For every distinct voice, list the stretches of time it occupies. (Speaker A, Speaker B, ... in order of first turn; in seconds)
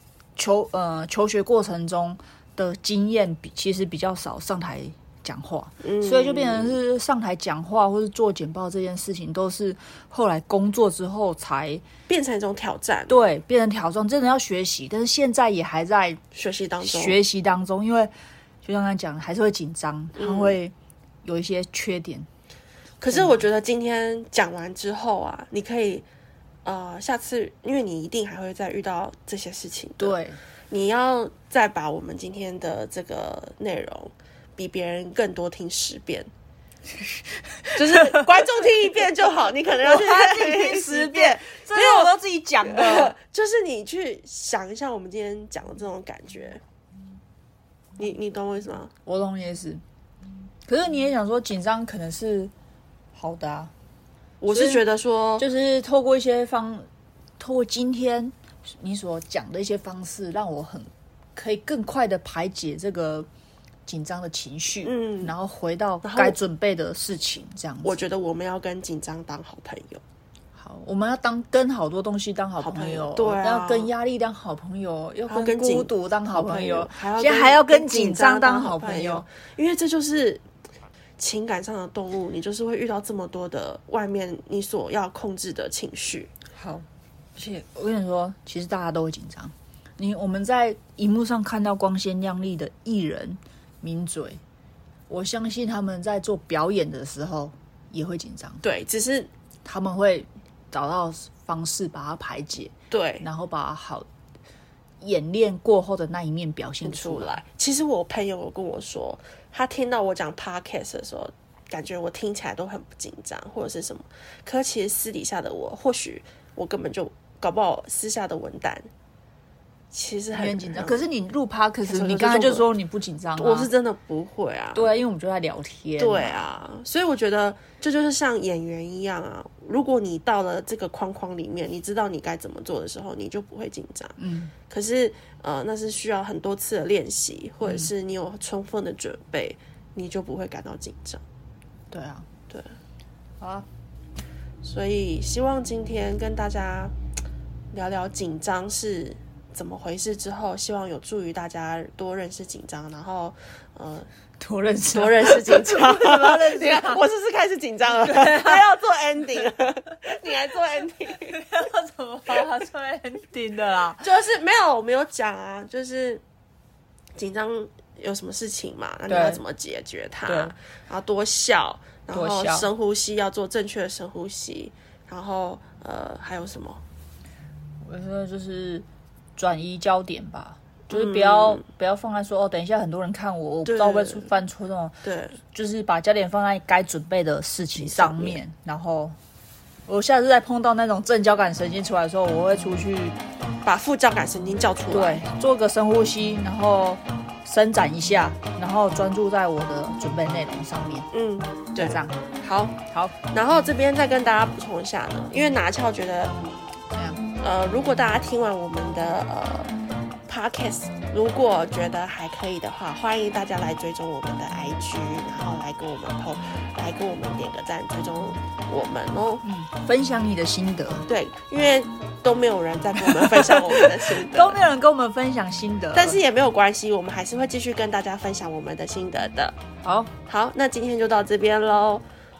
Speaker A: 0.3-11.8, 13.1-16.2, 16.8-18.1, 18.6-22.3, 23.1-23.4, 30.0-30.4, 37.6-38.2, 39.8-43.1, 49.0-49.8, 50.6-52.5, 53.1-53.7, 54.5-54.8, 55.4-56.9, 57.4-63.3, 63.9-68.0, 70.5-79.2, 86.5-94.4, 95.1-98.6, 99.6-104.1, 105.0-107.4, 120.3-123.7, 124.7-126.4, 134.2-134.5, 137.6-137.9, 141.9-142.3, 143.4-143.7, 154.4-157.0, 158.0-158.7, 161.2-164.0, 169.1-169.4, 170.3-170.5, 172.1-172.7, 177.8-189.2, 189.9-193.2, 194.9-201.1, 201.8-202.2, 202.9-203.1, 206.9-207.2, 219.4-221.1, 223.0-226.2, 229.8-230.1
Speaker B: 5.8-6.8, 12.1-13.2, 16.3-17.2, 20.1-20.6, 23.0-26.0, 26.6-30.2, 30.7-36.3, 37.7-46.6, 48.0-48.9, 54.4-55.5, 64.8-65.3, 66.0-66.4, 67.8-70.0, 72.6-73.9, 75.3-80.4, 81.2-86.3, 98.6-99.3, 102.9-103.2, 106.8-118.9, 119.9-121.0, 121.8-122.7, 123.3-124.9, 126.0-134.2, 134.7-141.2, 144.6-146.9, 147.7-154.1, 154.9-161.4, 164.0-166.2, 167.2-176.8, 180.9-181.6, 183.6-184.3, 185.0-185.4, 187.8-188.4, 193.6-195.3, 201.1-202.8, 203.3-206.3, 207.4-209.7, 210.3-219.4, 221.1-224.6, 225.9-229.6, 230.3-232.0